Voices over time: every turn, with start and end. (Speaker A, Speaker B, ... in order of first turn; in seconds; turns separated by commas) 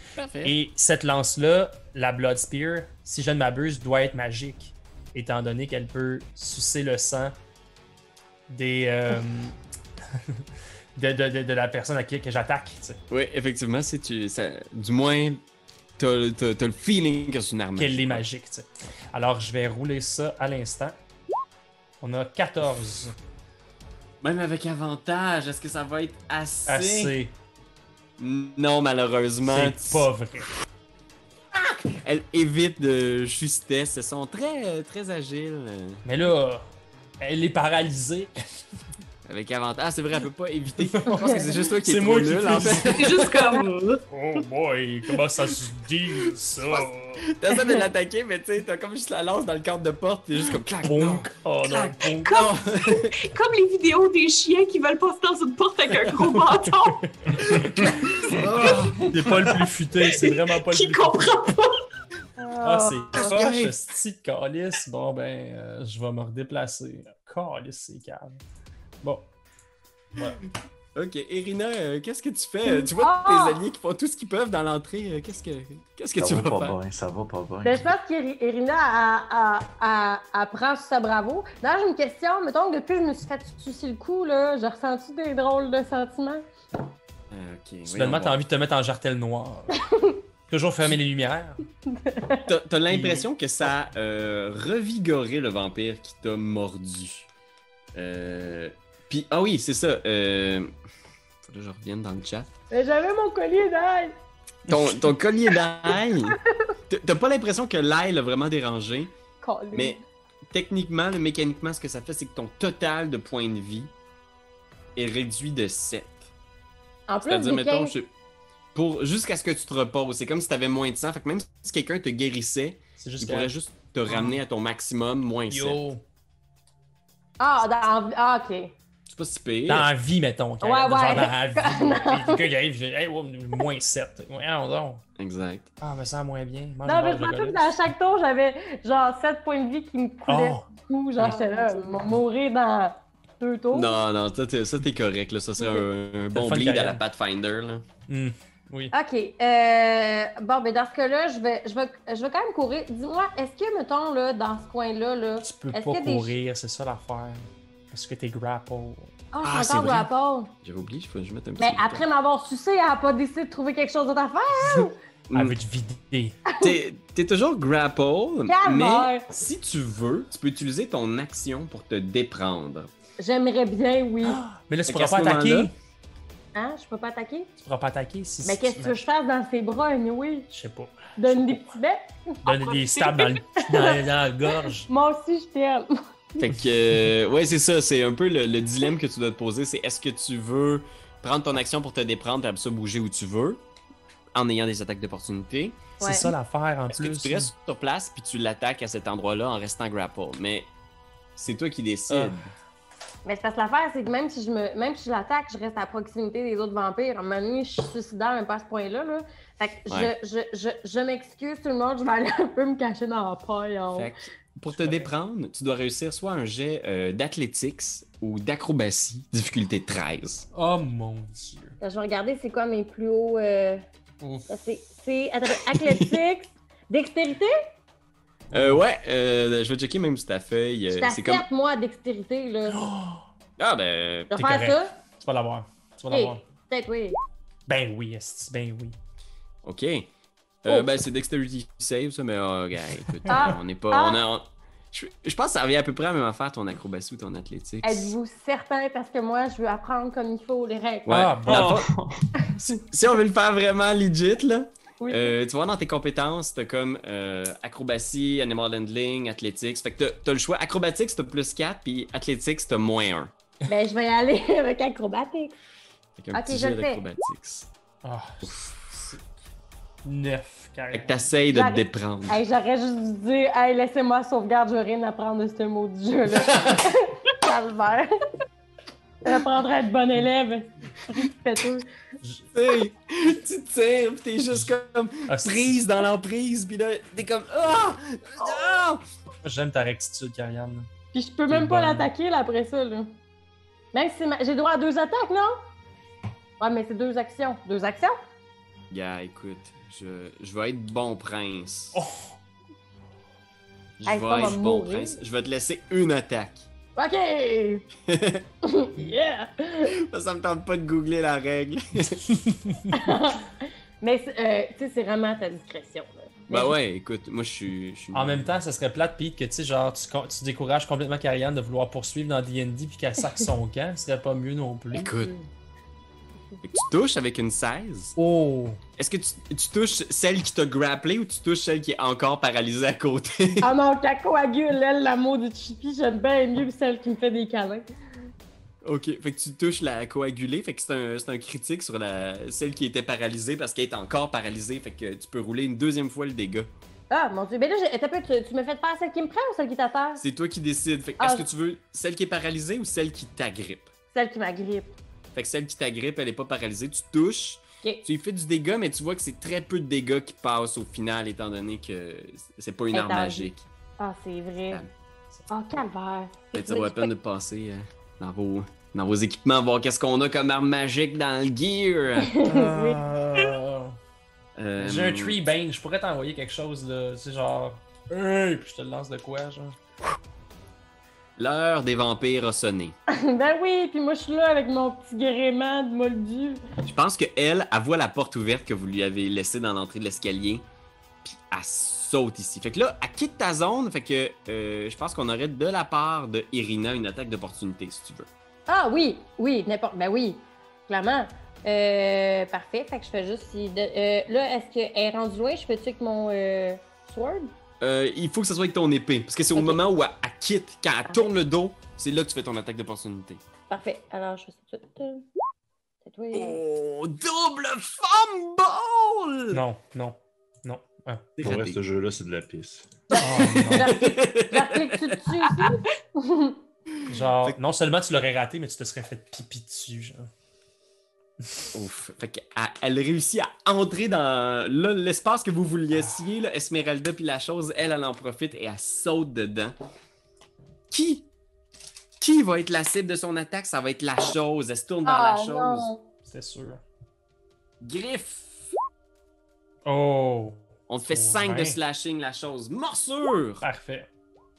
Speaker A: 0.2-0.5, Speaker B: 0.4-7.3, Speaker B: 8.5-9.5, Speaker B: 10.9-13.0, Speaker A: 13.1-15.4, Speaker A: 16.0-18.2, Speaker B: 17.8-21.0, Speaker B: 22.0-23.1, Speaker A: 24.2-27.1, Speaker B: 26.7-27.3, Speaker A: 28.2-30.1, Speaker B: 29.4-30.5, Speaker A: 31.7-36.0, Speaker B: 36.0-36.7, Speaker B: 37.2-38.3, Speaker A: 39.2-43.3, Speaker B: 40.8-47.2, Speaker C: 42.9-44.0, Speaker A: 46.7-53.1, Speaker B: 50.8-52.3, Speaker C: 52.1-57.0, Speaker B: 57.2-57.6, Speaker A: 57.4-59.4, Speaker B: 58.6-61.3, Speaker C: 60.0-61.8, Speaker D: 62.4-63.3, Speaker B: 62.6-68.4, Speaker A: 63.1-63.7, Speaker B: 69.0-69.3, Speaker A: 70.9-76.8, Speaker D: 72.7-73.6, Speaker E: 76.2-77.9, Speaker D: 77.6-86.4, Speaker A: 87.3-88.4, Speaker B: 87.9-89.8, Speaker D: 89.9-90.2, Speaker B: 90.5-91.6, Speaker D: 91.9-92.5, Speaker A: 92.4-97.3, Speaker B: 92.9-93.3, Speaker A: 98.0-100.7, Speaker A: 101.4-102.5, Speaker D: 102.7-104.2, Speaker A: 104.7-106.4, Speaker A: 106.9-109.1, Speaker D: 109.4-110.0, Speaker A: 109.7-110.0, Speaker A: 110.5-113.9, Speaker A: 115.0-116.3, Speaker D: 117.1-117.9, Speaker A: 117.2-118.1, Speaker A: 118.7-125.8, Speaker B: 123.0-123.5, Speaker B: 124.1-124.4, Speaker B: 125.5-126.0, Speaker D: 127.4-128.7, Speaker A: 129.1-129.9, Speaker B: 129.7-135.0, Speaker D: 130.6-132.5, Speaker A: 135.2-135.7, Speaker B: 135.8-137.8, Speaker D: 136.8-144.0, Speaker B: 140.3-140.6, Speaker A: 143.7-147.8, Speaker B: 146.3-147.0, Speaker B: 148.1-148.9, Speaker D: 148.9-156.3, Speaker B: 155.4-159.1, Speaker D: 159.3-160.5, Speaker A: 159.4-160.1, Speaker A: 160.6-162.0, Speaker D: 161.6-164.9, Speaker A: 165.3-165.6, Speaker B: 165.3-166.4, Speaker D: 166.5-166.8, Speaker A: 166.6-172.9, Speaker D: 168.5-169.3, Speaker D: 173.2-174.4, Speaker B: 174.2-175.7, Speaker A: 174.9-175.7, Speaker D: 176.5-177.5, Speaker B: 177.6-179.0, Speaker D: 178.4-180.5, Speaker B: 180.5-181.7, Speaker D: 181.2-185.9, Speaker B: 182.4-184.9, Speaker A: 186.4-193.6, Speaker A: 194.3-195.8, Speaker D: 196.0-196.3, Speaker B: 196.0-197.5, Speaker A: 196.9-200.7, Speaker A: 201.4-202.5, Speaker B: 202.1-202.3, Speaker D: 203.2-214.1, Speaker A: 213.9-220.4, Speaker B: 214.7-215.1, Speaker B: 220.5-221.8, Speaker D: 221.8-223.8, Speaker B: 224.2-224.5, Speaker D: 224.5-227.5, Speaker A: 225.7-226.2, Speaker B: 228.5-228.8, Speaker A: 228.5-231.4, Speaker D: 230.9-232.8, Speaker B: 232.7-233.2, Speaker A: 233.6-234.3, Speaker D: 234.3-234.9, Speaker B: 234.3-236.4, Speaker D: 236.1-237.2, Speaker B: 237.7-239.0, Speaker A: 239.6-240.1, Speaker A: 240.6-248.1, Speaker B: 243.2-243.5, Speaker D: 243.3-244.2, Speaker D: 247.8-251.2, Speaker A: 251.1-251.9, Speaker B: 251.1-251.9, Speaker E: 251.5-252.2, Speaker A: 252.5-263.3, Speaker D: 255.0-255.3, Speaker D: 263.7-265.5, Speaker A: 266.2-267.7, Speaker D: 266.3-267.0, Speaker B: 268.0-269.2, Speaker A: 268.4-268.7, Speaker B: 270.0-271.3, Speaker A: 270.9-272.4, Speaker D: 271.5-278.1, Speaker A: 276.3-276.8, Speaker D: 279.2-281.9, Speaker A: 282.5-289.0, Speaker B: 285.3-285.6, Speaker B: 289.4-290.9, Speaker D: 291.1-293.1, Speaker B: 291.5-292.1, Speaker D: 293.9-295.5, Speaker D: 296.6-298.2, Speaker A: 298.9-302.0, Speaker B: 301.9-302.3, Speaker A: 304.0-306.7, Speaker D: 304.1-305.2, Speaker D: 306.9-307.9, Speaker A: 308.1-308.4, Speaker D: 308.6-309.9, Speaker A: 309.9-312.3, Speaker D: 312.9-316.7, Speaker A: 316.5-318.6, Speaker B: 318.1-325.1, Speaker A: 324.9-325.4, Speaker A: 326.6-328.1, Speaker B: 328.1-328.8, Speaker A: 329.0-333.7, Speaker D: 333.6-337.9, Speaker A: 338.8-346.7, Speaker D: 347.1-350.2, Speaker A: 350.2-353.9, Speaker D: 351.2-351.5, Speaker D: 354.1-354.9, Speaker A: 355.3-363.6, Speaker D: 362.9-364.8, Speaker D: 365.5-367.1, Speaker A: 366.5-372.3, Speaker D: 372.2-373.0, Speaker B: 372.4-373.9, Speaker A: 374.6-375.4, Speaker B: 374.8-379.8, Speaker A: 381.4-382.9, Speaker D: 383.1-386.6, Speaker A: 386.8-390.6, Speaker A: 391.2-398.3, Speaker D: 398.7-407.5, Speaker A: 407.8-413.4, Speaker D: 413.7-415.2, Speaker D: 416.0-416.6, Speaker A: 416.3-419.6, Speaker B: 419.5-421.2, Speaker A: 421.4-421.8, Speaker E: 421.4-422.9, Speaker A: 423.1-425.6, Speaker D: 423.1-426.6, Speaker B: 423.2-423.9, Speaker A: 427.0-427.6, Speaker B: 427.1-430.3, Speaker A: 431.7-439.7, Speaker A: 440.9-441.3, Speaker A: 442.2-445.9, Speaker D: 445.0-446.0, Speaker B: 446.2-446.8, Speaker A: 447.8-448.7, Speaker B: 449.8-451.8, Speaker A: 450.9-453.6, Speaker B: 453.6-454.1